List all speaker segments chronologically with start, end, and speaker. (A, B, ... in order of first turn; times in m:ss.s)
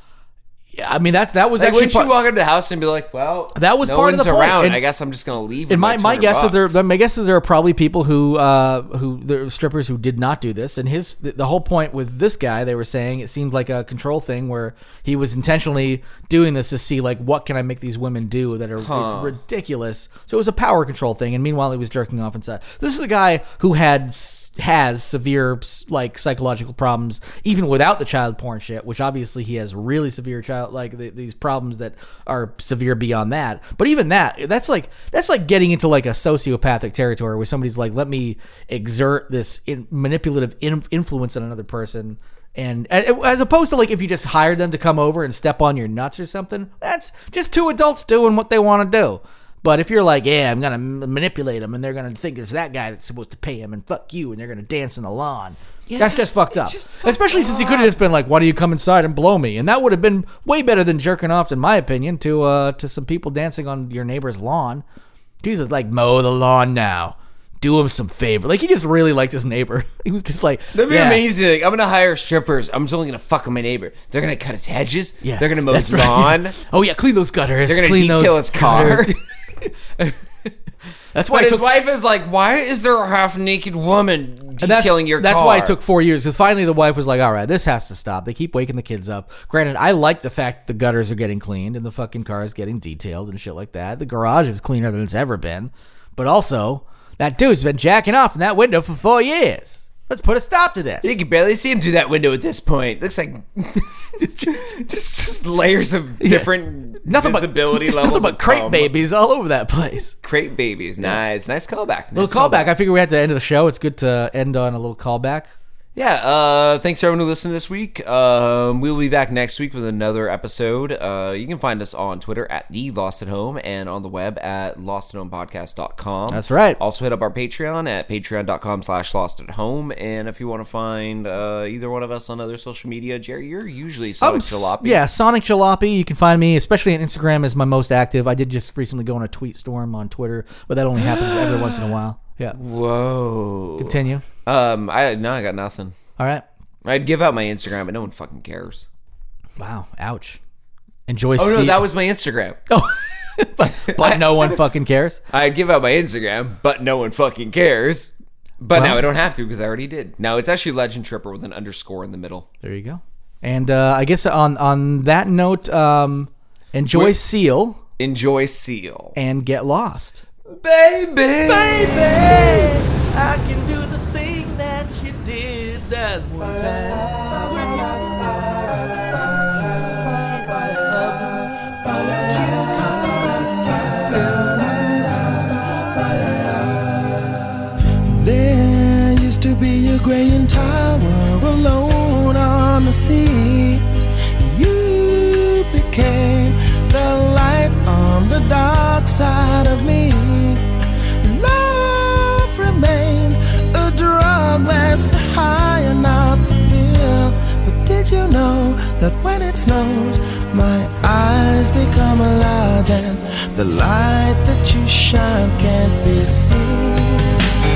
0:00.8-0:02.1 A
0:01.6-0:06.9 B
0:03.5-0:04.8 A
0:05.7-1:04.8 A
0:18.8-0:19.4 B
0:55.9-0:58.0 B
1:05.4-1:11.2 A
1:10.7-1:16.6 B
1:15.2-1:20.5 A
1:17.7-1:19.2 B
1:21.1-1:21.6 A
1:21.3-1:25.8 B
1:24.6-1:41.2 A
1:41.0-1:48.9 B
1:44.2-1:44.7 A
1:46.2-1:46.5 A
1:47.0-1:50.1 A
1:50.2-1:52.7 B
1:52.1-1:55.5 A
1:55.9-2:15.0 B
2:06.3-2:06.8 A
2:14.2-2:22.6 A
2:21.0-2:22.0 B
2:22.5-2:26.0 B
2:23.8-2:24.2 A
2:26.2-2:26.4 A
2:26.8-2:28.9 B
2:29.6-2:30.4 A
2:31.1-2:31.9 A
2:31.4-2:32.6 B
2:32.7-2:35.2 A
2:33.8-2:34.6 B
2:35.3-2:42.4 B
2:38.7-2:39.0 A
2:42.6-2:47.8 A
2:48.0-2:49.2 B
2:49.2-2:50.2 A
2:50.5-2:52.8 B
2:51.4-2:58.6 A
2:57.3-2:59.2 C
3:00.1-3:01.5 A
3:01.8-3:07.3 C
3:08.0-3:20.6 C
3:21.2-3:37.4 C